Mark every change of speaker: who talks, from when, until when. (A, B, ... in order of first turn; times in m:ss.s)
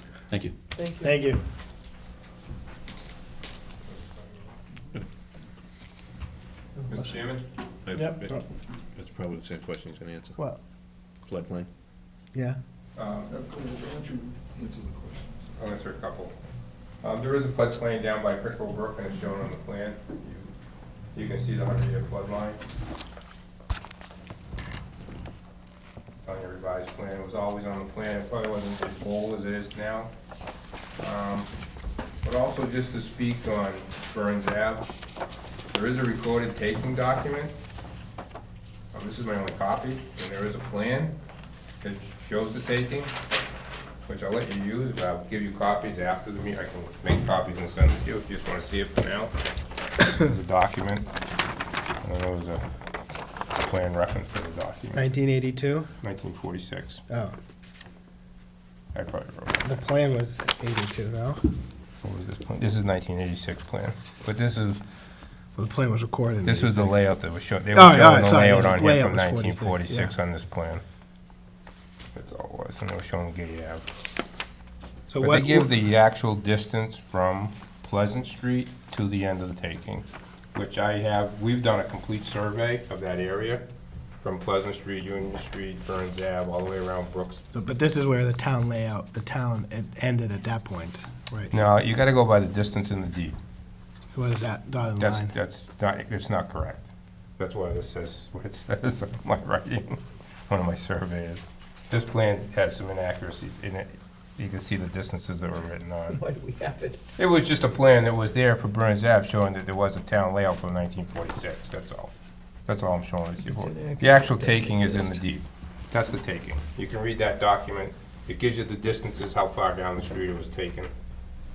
0:00.8-0:01.2 A
0:01.0-0:01.4 B
0:06.9-0:07.4 C
0:07.9-0:08.3 D
0:07.9-0:08.5 B
0:09.0-0:10.4 D
0:11.2-0:11.7 D
0:13.0-0:13.4 C
0:15.6-0:16.4 C
0:17.0-0:20.5 C
0:21.2-0:22.6 C
0:26.2-0:30.1 C
0:31.0-0:31.5 C
0:32.2-0:34.9 C
0:35.7-0:37.6 C
0:38.9-0:41.2 C
0:41.8-0:43.2 C
0:44.0-0:49.3 C
0:50.0-0:51.1 C
0:52.0-0:52.6 C
0:53.6-0:55.0 C
0:54.9-0:55.9 B
0:56.0-0:57.0 C
0:57.1-0:57.3 B
0:58.9-0:59.6 C
0:59.6-1:01.4 B
1:02.0-1:04.8 C
1:05.6-1:07.2 B
1:06.4-1:10.8 C
1:07.7-1:10.1 B
1:12.2-1:13.9 C
1:15.1-1:15.7 B
1:15.2-1:23.7 C
1:24.2-1:27.4 C
1:27.5-1:31.6 B
1:31.5-1:33.4 C
1:34.1-1:35.3 B
1:35.0-1:46.2 C
1:46.1-1:47.0 A
1:47.2-1:52.1 C
1:52.7-2:00.9 C
1:53.4-1:55.2 A